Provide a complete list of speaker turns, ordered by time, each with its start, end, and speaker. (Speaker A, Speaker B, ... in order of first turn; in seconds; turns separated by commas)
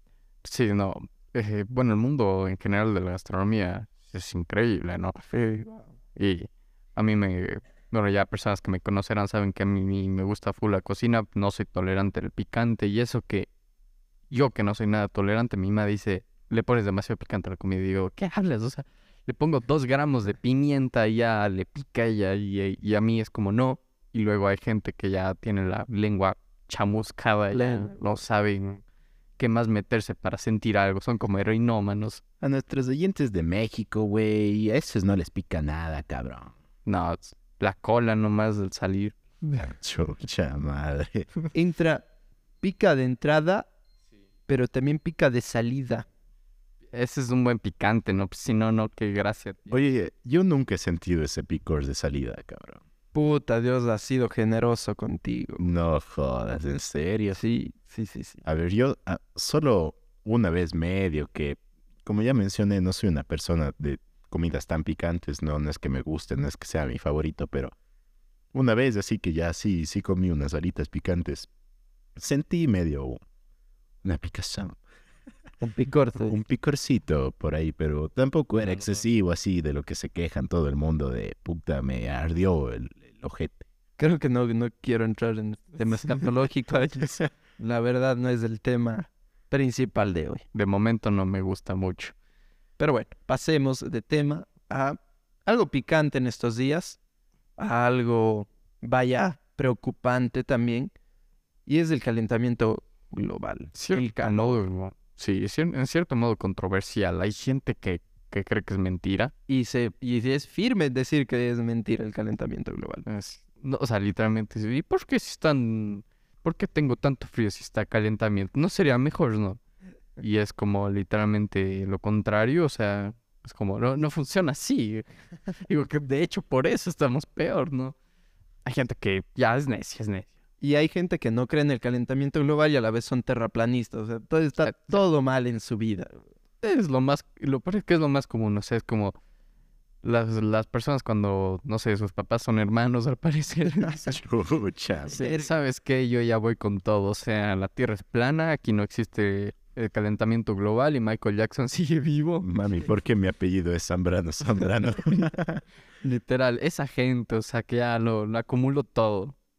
Speaker A: 0.4-5.2, Speaker B: 5.3-5.9, Speaker A: 6.2-13.5, Speaker A: 14.3-28.8, Speaker B: 27.5-28.0, Speaker A: 29.4-32.2, Speaker C: 32.4-36.5, Speaker A: 36.9-39.5, Speaker C: 39.6-41.3, Speaker B: 41.5-42.0, Speaker B: 42.6-43.7, Speaker B: 44.5-46.1, Speaker A: 46.9-49.7, Speaker C: 49.7-52.8, Speaker B: 53.1-55.6, Speaker C: 55.6-57.4, Speaker B: 57.3-58.4, Speaker C: 58.4-67.7, Speaker C: 68.5-71.5, Speaker C: 72.2-73.2, Speaker C: 74.0-74.8, Speaker B: 75.6-76.3, Speaker C: 76.2-83.7, Speaker B: 84.0-90.4, Speaker A: 90.5-92.1, Speaker B: 92.8-97.0, Speaker B: 97.6-100.9, Speaker B: 101.7-104.6, Speaker A: 103.8-109.3, Speaker B: 109.5-113.1, Speaker A: 113.1-119.6, Speaker A: 120.2-125.0, Speaker A: 125.6-128.0, Speaker A: 128.7-130.3, Speaker B: 130.6-136.2, Speaker A: 136.6-139.2, Speaker A: 140.0-144.2, Speaker C: 144.0-145.2, Speaker A: 145.1-152.5, Speaker C: 152.4-155.6, Speaker A: 156.0-159.3